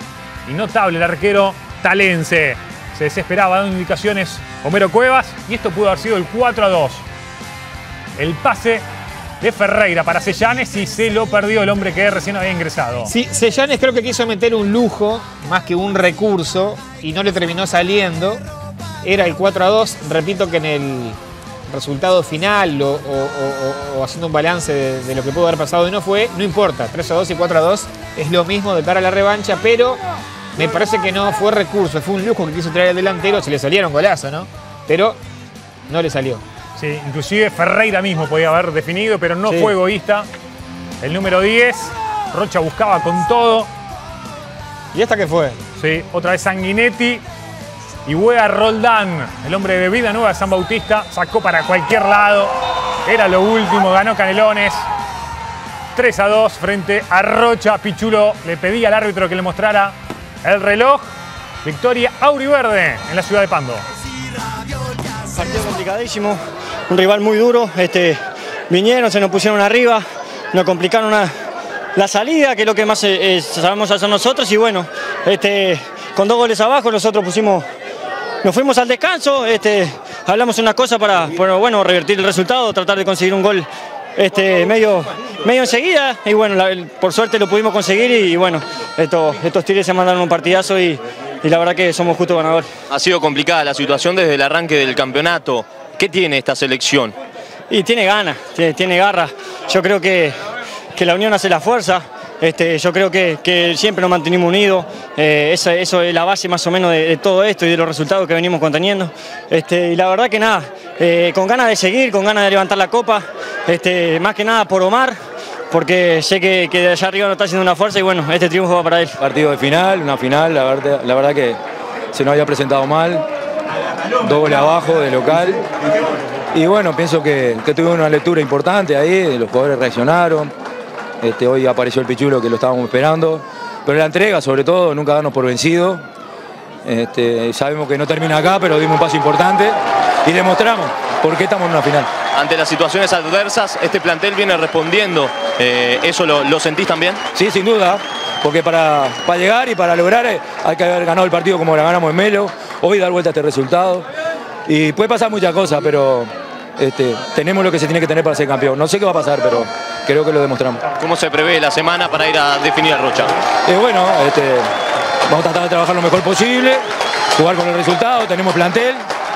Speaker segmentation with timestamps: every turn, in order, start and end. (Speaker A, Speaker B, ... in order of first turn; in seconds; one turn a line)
Speaker A: 0.5-7.0
Speaker A: 8.2-8.8
Speaker A: 9.4-13.1
Speaker B: 13.1-18.4
Speaker B: 19.0-30.0
Speaker B: 30.6-35.2
Speaker B: 35.9-36.4
Speaker A: 36.8-40.3
Speaker B: 39.5-39.7
Speaker A: 41.0-43.7
Speaker B: 44.9-45.6
Speaker A: 45.8-47.2
Speaker A: 48.1-52.5
Speaker A: 53.1-54.9
Speaker A: 56.0-61.1
Speaker A: 61.6-63.8
Speaker C: 65.3-68.2
Speaker C: 68.7-71.3
Speaker C: 72.0-77.7
Speaker C: 78.4-92.7
Speaker D: 92.9-97.2
Speaker C: 97.7-100.4
Speaker C: 101.0-115.2
Speaker C: 115.7-119.2
Speaker E: 119.2-121.6
Speaker E: 122.1-123.3
Speaker E: 124.2-125.6
Speaker E: 126.5-130.5
Speaker E: 131.2-136.0
Speaker E: 136.8-142.1
Speaker D: 142.3-147.2
Speaker E: 147.3-154.1
Speaker E: 154.7-160.8
Speaker D: 161.0-163.3
Speaker E: 163.7-164.7
Speaker E: 165.3-169.0